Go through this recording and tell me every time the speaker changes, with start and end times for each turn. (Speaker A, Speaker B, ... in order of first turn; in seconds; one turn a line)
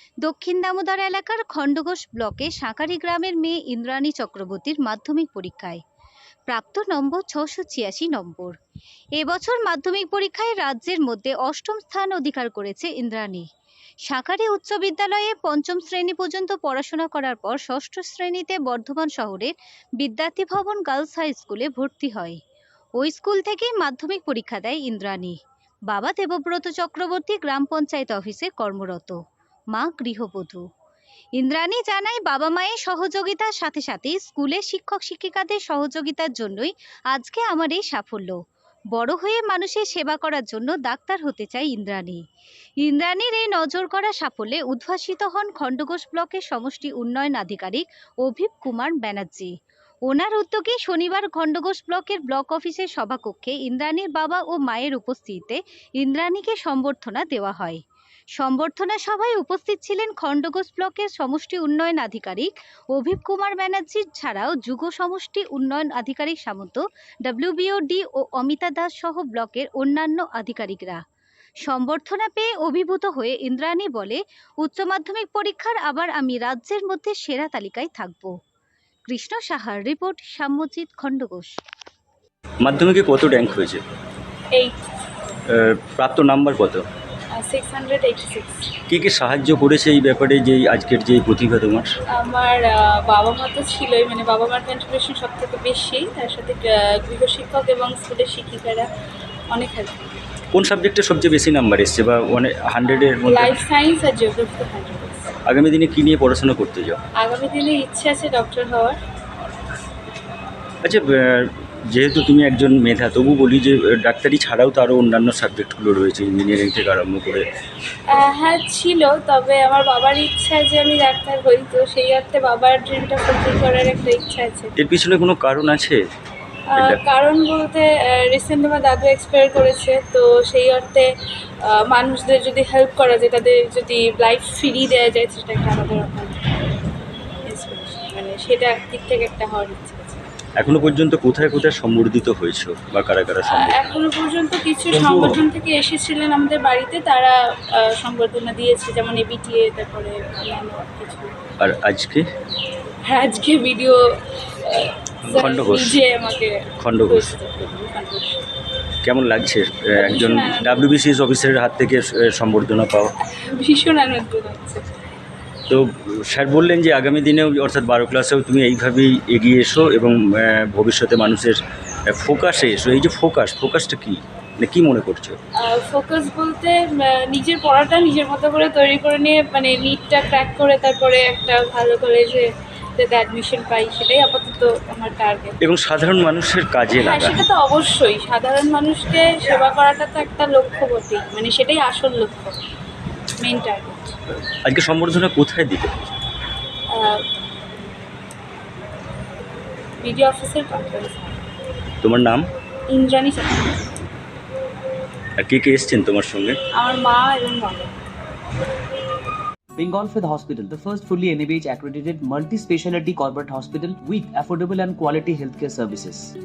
Speaker A: 0.2-5.8
Speaker A: 6.5-8.6
Speaker A: 9.2-13.5
Speaker A: 14.1-22.4
Speaker A: 23.0-25.4
Speaker A: 25.9-29.2
Speaker A: 29.7-30.6
Speaker A: 31.4-38.4
Speaker A: 38.9-42.2
Speaker A: 42.8-49.5
Speaker A: 50.1-57.8
Speaker A: 58.4-71.0
Speaker A: 71.7-78.3
Speaker A: 79.1-81.5
Speaker B: 82.6-83.8
Speaker C: 84.5-84.8
Speaker B: 85.5-86.8
Speaker C: 87.3-88.7
Speaker B: 88.9-91.9
Speaker C: 92.1-98.9
Speaker C: 99.5-100.1
Speaker B: 100.5-103.6
Speaker C: 103.2-105.3
Speaker B: 105.5-107.0
Speaker C: 107.2-109.0
Speaker B: 110.8-117.5
Speaker C: 118.1-124.7
Speaker B: 124.8-126.0
Speaker C: 126.7-131.1
Speaker C: 131.7-136.4
Speaker C: 137.5-140.3
Speaker B: 140.6-143.8
Speaker C: 143.5-151.3
Speaker B: 144.9-145.4
Speaker B: 151.6-152.2
Speaker C: 153.1-154.0
Speaker C: 154.7-158.5
Speaker B: 155.2-156.0
Speaker B: 156.8-157.3
Speaker B: 159.0-163.1
Speaker C: 160.0-160.9
Speaker C: 163.5-164.8
Speaker B: 165.7-171.6
Speaker B: 172.1-175.4
Speaker C: 175.6-182.5
Speaker C: 183.0-185.6
Speaker B: 185.6-187.4
Speaker C: 186.9-192.6
Speaker C: 193.4-194.2
Speaker B: 194.6-196.1
Speaker C: 196.9-197.2
Speaker C: 200.0-201.4
Speaker B: 202.0-202.4
Speaker C: 202.9-203.8
Speaker B: 205.4-206.6
Speaker C: 206.8-207.9
Speaker D: 209.8-216.3